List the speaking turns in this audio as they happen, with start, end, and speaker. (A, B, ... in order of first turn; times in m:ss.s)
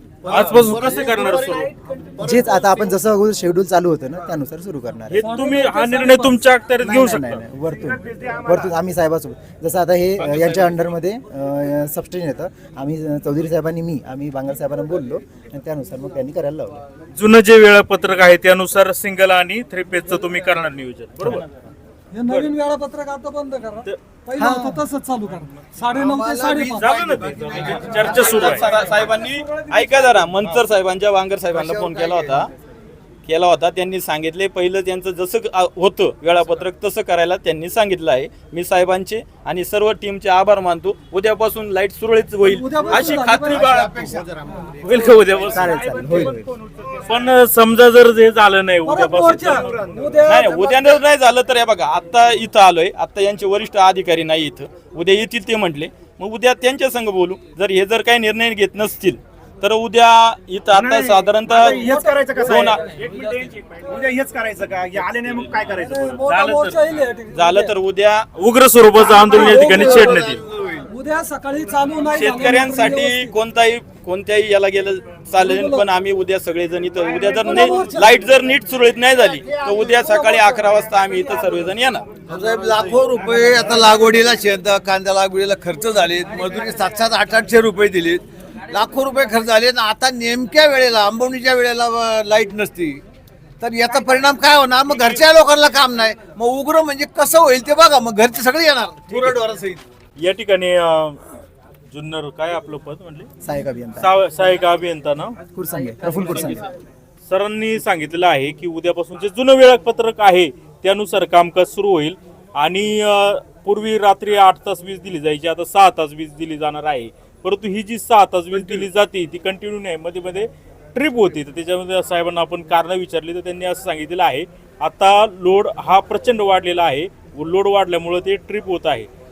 0:00.2-0:02.8 A
0:00.3-0:01.7 B
0:02.2-0:05.4 C
0:05.1-0:07.4 B
0:05.2-0:06.4 D
0:06.8-0:16.8 C
0:08.1-0:08.5 E
0:17.1-0:21.5 B
0:22.1-0:27.0 D
0:22.2-0:22.5 B
0:24.4-0:24.8 C
0:25.9-0:28.9 A
0:26.8-0:28.7 B
0:28.0-0:32.5 F
0:29.3-0:30.2 D
0:31.5-0:32.5 A
0:33.2-0:44.2 F
0:42.4-0:43.7 D
0:43.0-0:45.6 A
0:44.8-0:45.8 B
0:45.5-0:46.5 C
0:45.8-0:46.9 E
0:47.0-0:50.1 B
0:48.8-0:50.8 D
0:50.2-1:01.9 F
1:00.7-1:06.0 E
1:01.7-1:02.8 D
1:02.4-1:02.8 F
1:03.0-1:03.6 B
1:05.1-1:07.0 B
1:05.7-1:07.7 D
1:07.3-1:08.2 F
1:08.4-1:10.4 B
1:08.9-1:10.9 A
1:09.3-1:10.1 D
1:10.9-1:13.3 D
1:12.1-1:22.1 F
1:15.4-1:15.9 D
1:17.2-1:18.2 D
1:19.9-1:21.5 D
1:22.2-1:33.0 A
1:33.6-1:39.8 A
1:39.1-1:39.4 B
1:40.2-1:41.4 B
1:41.9-1:43.3 B
1:43.4-1:44.1 C
1:44.0-1:45.4 B
1:45.5-1:46.7 C
1:47.2-2:09.1 B